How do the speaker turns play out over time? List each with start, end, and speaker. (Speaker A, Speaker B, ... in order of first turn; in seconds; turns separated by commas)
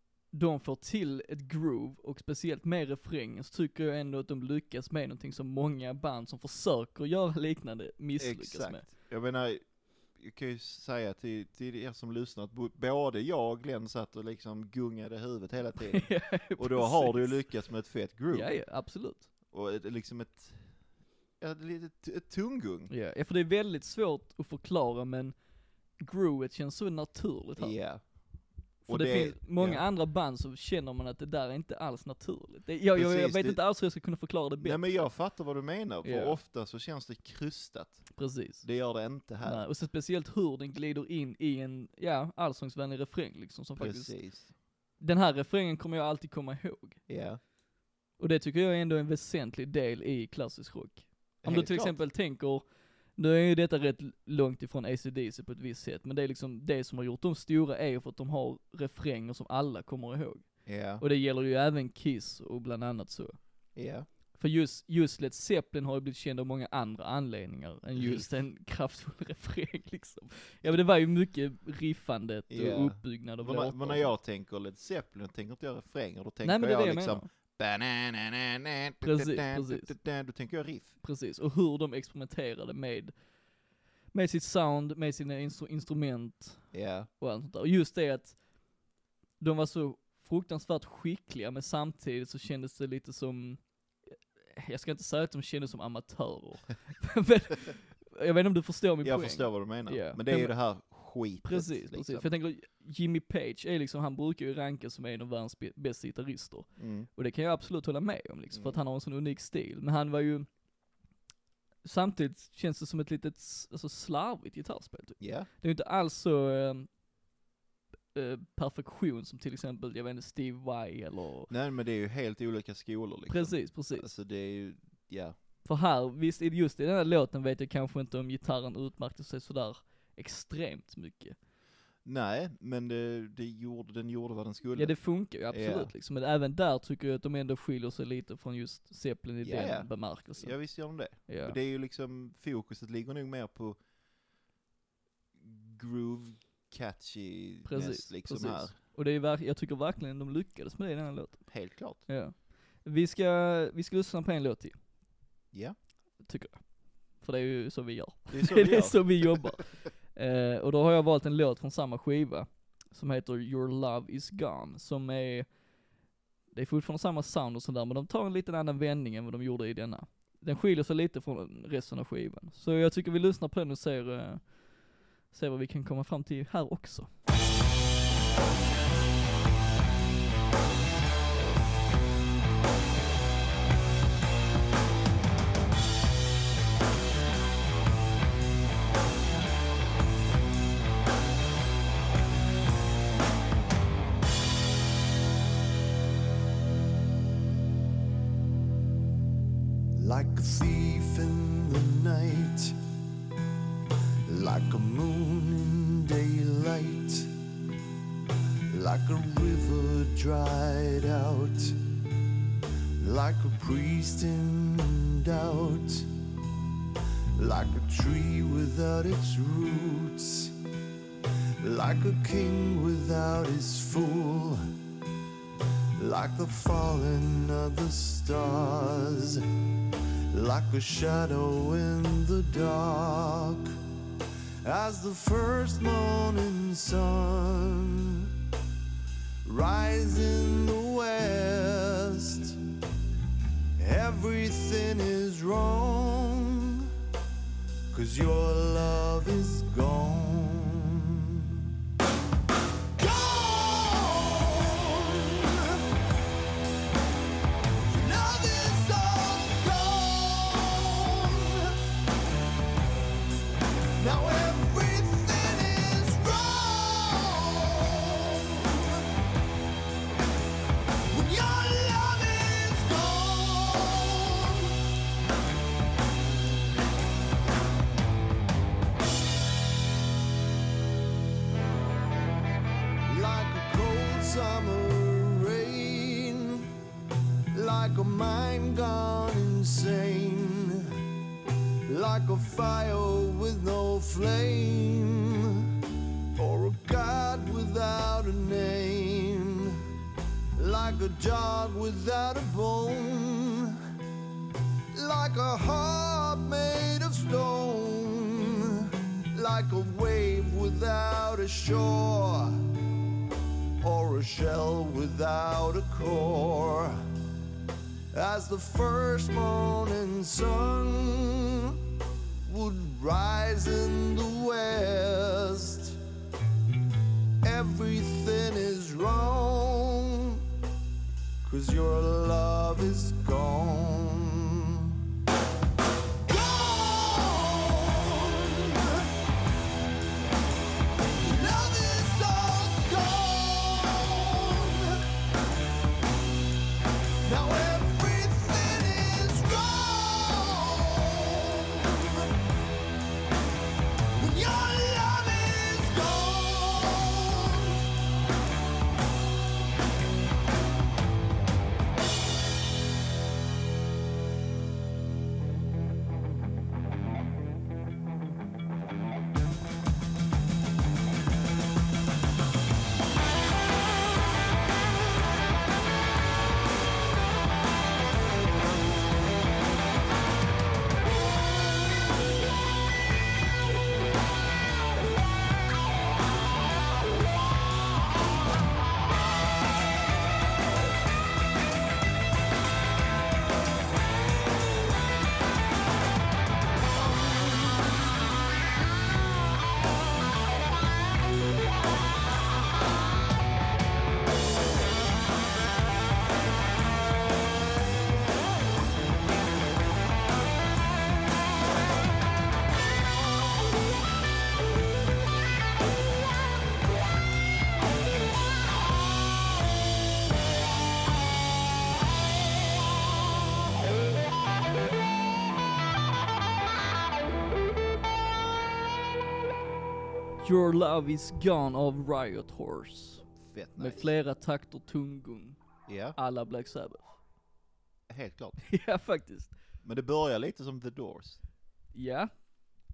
Speaker A: 0.3-8.9, Speaker B: 8.2-18.5, Speaker A: 15.8-17.4, Speaker A: 18.3-19.3, Speaker B: 19.5-20.7, Speaker B: 21.4-22.9, Speaker A: 22.9-25.4, Speaker A: 26.0-27.8, Speaker B: 27.6-28.1, Speaker A: 28.8-35.1, Speaker B: 28.9-29.8, Speaker B: 32.9-33.6, Speaker B: 34.6-39.6, Speaker A: 36.0-36.4, Speaker A: 38.1-38.6, Speaker A: 39.4-44.2, Speaker B: 43.8-44.5, Speaker A: 45.0-47.0, Speaker B: 47.1-47.4, Speaker A: 48.2-52.6, Speaker B: 51.4-52.0, Speaker A: 53.1-63.4, Speaker B: 60.6-61.0, Speaker B: 63.7-64.1, Speaker A: 64.4-74.1, Speaker B: 67.9-68.3, Speaker B: 72.5-81.0, Speaker A: 76.4-77.3, Speaker A: 79.0-79.9, Speaker A: 81.0-83.1, Speaker A: 84.1-88.4, Speaker B: 86.7-87.1, Speaker A: 89.4-93.6, Speaker A: 94.5-100.5, Speaker B: 99.0-102.3, Speaker A: 101.4-110.5, Speaker B: 106.8-107.1, Speaker B: 108.5-108.8, Speaker A: 111.8-116.9, Speaker B: 115.2-115.5, Speaker A: 118.1-121.5, Speaker B: 121.5-125.3, Speaker A: 123.3-124.1, Speaker A: 125.6-131.3, Speaker B: 132.0-135.9, Speaker A: 134.8-141.6, Speaker B: 139.4-143.8, Speaker B: 145.3-148.7, Speaker A: 147.7-154.8, Speaker B: 151.5-152.0, Speaker A: 156.2-156.6, Speaker A: 157.2-165.5, Speaker B: 158.3-159.5, Speaker A: 166.5-174.6, Speaker A: 175.3-177.1, Speaker C: 199.9-202.8, Speaker C: 204.3-207.3, Speaker C: 208.7-211.8, Speaker C: 213.0-216.1, Speaker C: 217.3-220.5, Speaker C: 221.6-224.7, Speaker C: 226.0-229.4, Speaker C: 230.3-233.7, Speaker C: 234.6-238.3, Speaker C: 239.4-242.6, Speaker C: 243.8-246.9, Speaker C: 247.9-251.7, Speaker C: 253.0-255.8, Speaker C: 257.9-261.8, Speaker C: 264.0-269.1, Speaker C: 271.1-274.8, Speaker C: 283.1-286.7, Speaker C: 287.5-291.0, Speaker C: 291.9-295.8, Speaker C: 296.4-299.9, Speaker C: 300.6-303.8, Speaker C: 304.9-312.6, Speaker C: 313.8-317.0, Speaker C: 318.1-321.8, Speaker C: 322.4-326.0, Speaker C: 327.4-330.5, Speaker C: 331.4-335.1, Speaker C: 336.2-339.1, Speaker C: 341.2-345.0, Speaker C: 347.2-352.4, Speaker C: 354.1-357.9, Speaker A: 430.4-435.6, Speaker B: 433.4-434.1, Speaker B: 435.9-436.1, Speaker A: 436.1-437.2, Speaker B: 438.1-438.6, Speaker A: 438.6-439.5, Speaker B: 439.8-441.4, Speaker A: 441.9-442.3